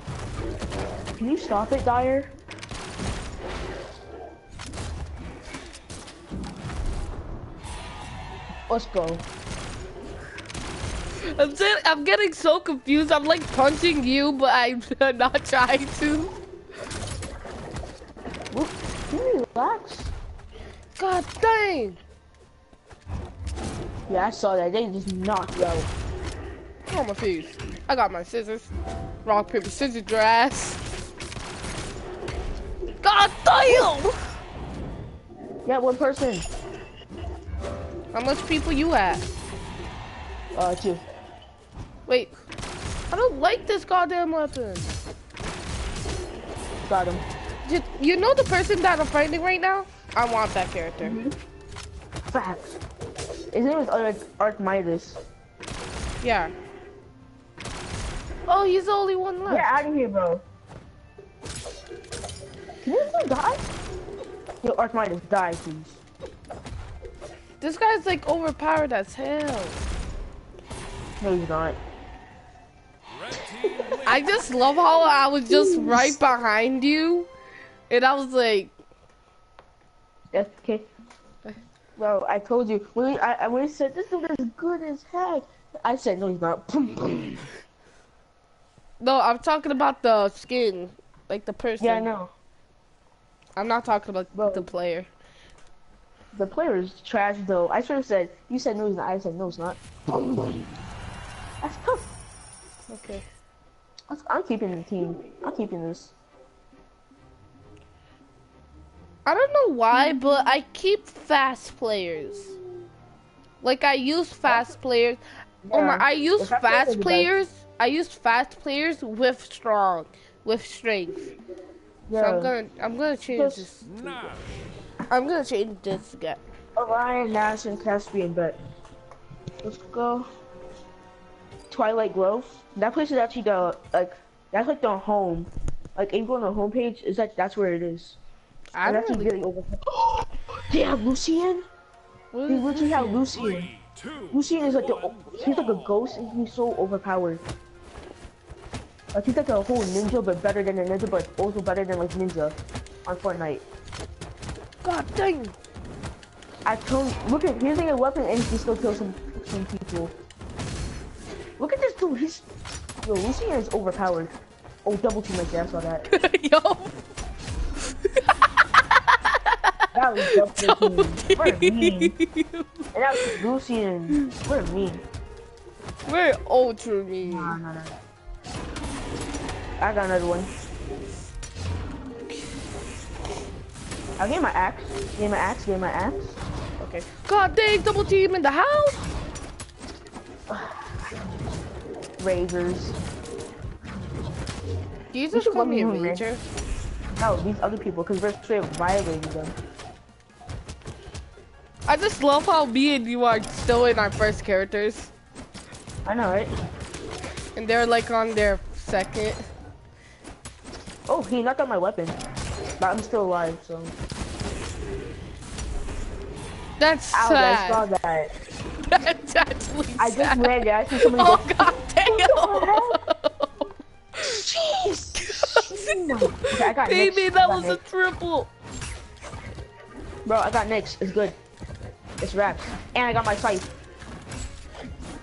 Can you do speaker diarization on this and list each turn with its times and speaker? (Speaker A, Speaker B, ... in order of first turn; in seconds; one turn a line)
Speaker A: 1.2-2.3
Speaker A: 8.7-9.2
Speaker B: 11.2-16.4
Speaker A: 18.5-20.1
Speaker B: 21.0-22.0
Speaker A: 24.1-25.9
Speaker B: 26.9-28.7
Speaker B: 29.2-30.8
Speaker B: 33.0-34.1
Speaker A: 35.6-36.5
Speaker B: 38.1-39.3
Speaker A: 40.5-41.0
Speaker B: 42.1-42.4
Speaker B: 43.1-45.0
Speaker A: 46.9-47.2
Speaker B: 47.6-51.2
Speaker A: 51.0-51.3
Speaker A: 52.3-52.8
Speaker A: 53.5-55.2
Speaker B: 56.2-56.5
Speaker B: 58.5-59.7
Speaker A: 59.5-60.4
Speaker A: 62.9-63.6
Speaker A: 64.6-66.0
Speaker B: 67.6-69.8
Speaker A: 71.2-71.8
Speaker C: 73.1-74.7
Speaker B: 74.0-77.3
Speaker A: 75.5-76.2
Speaker B: 77.9-78.7
Speaker A: 80.3-80.9
Speaker A: 82.0-87.5
Speaker B: 89.0-92.1
Speaker A: 91.8-92.3
Speaker B: 93.6-95.1
Speaker A: 94.3-94.7
Speaker A: 96.3-100.7
Speaker A: 101.6-102.1
Speaker B: 102.9-103.2
Speaker A: 104.1-106.1
Speaker B: 109.3-112.6
Speaker B: 113.6-115.2
Speaker A: 115.7-117.3
Speaker B: 115.7-121.3
Speaker A: 122.1-122.5
Speaker B: 122.2-123.9
Speaker A: 123.3-124.1
Speaker C: 123.8-124.5
Speaker B: 125.1-126.4
Speaker A: 126.8-128.6
Speaker A: 129.6-130.3
Speaker A: 131.7-138.2
Speaker B: 138.7-139.3
Speaker A: 138.8-141.7
Speaker B: 142.3-143.3
Speaker A: 142.5-143.7
Speaker C: 143.2-145.9
Speaker A: 144.3-147.4
Speaker A: 149.1-153.6
Speaker B: 154.8-155.5
Speaker A: 156.7-160.1
Speaker A: 161.6-162.5
Speaker A: 163.0-166.1
Speaker B: 166.1-166.9
Speaker B: 168.8-173.4
Speaker A: 169.9-172.2
Speaker A: 172.9-175.0
Speaker B: 176.1-177.6
Speaker A: 177.2-178.0
Speaker A: 179.8-180.5
Speaker A: 184.2-186.4
Speaker B: 186.8-189.1
Speaker A: 190.5-191.0
Speaker A: 192.2-193.0
Speaker B: 195.1-196.4
Speaker A: 195.3-196.2
Speaker A: 197.2-199.6
Speaker B: 201.9-205.1
Speaker A: 206.1-206.5
Speaker B: 207.6-209.5
Speaker A: 211.1-212.2
Speaker A: 212.8-213.9
Speaker B: 216.8-217.8
Speaker A: 217.1-218.3
Speaker B: 218.9-223.7
Speaker A: 220.0-223.0
Speaker A: 224.2-227.8
Speaker B: 225.2-228.5
Speaker A: 230.2-231.4
Speaker A: 232.2-233.7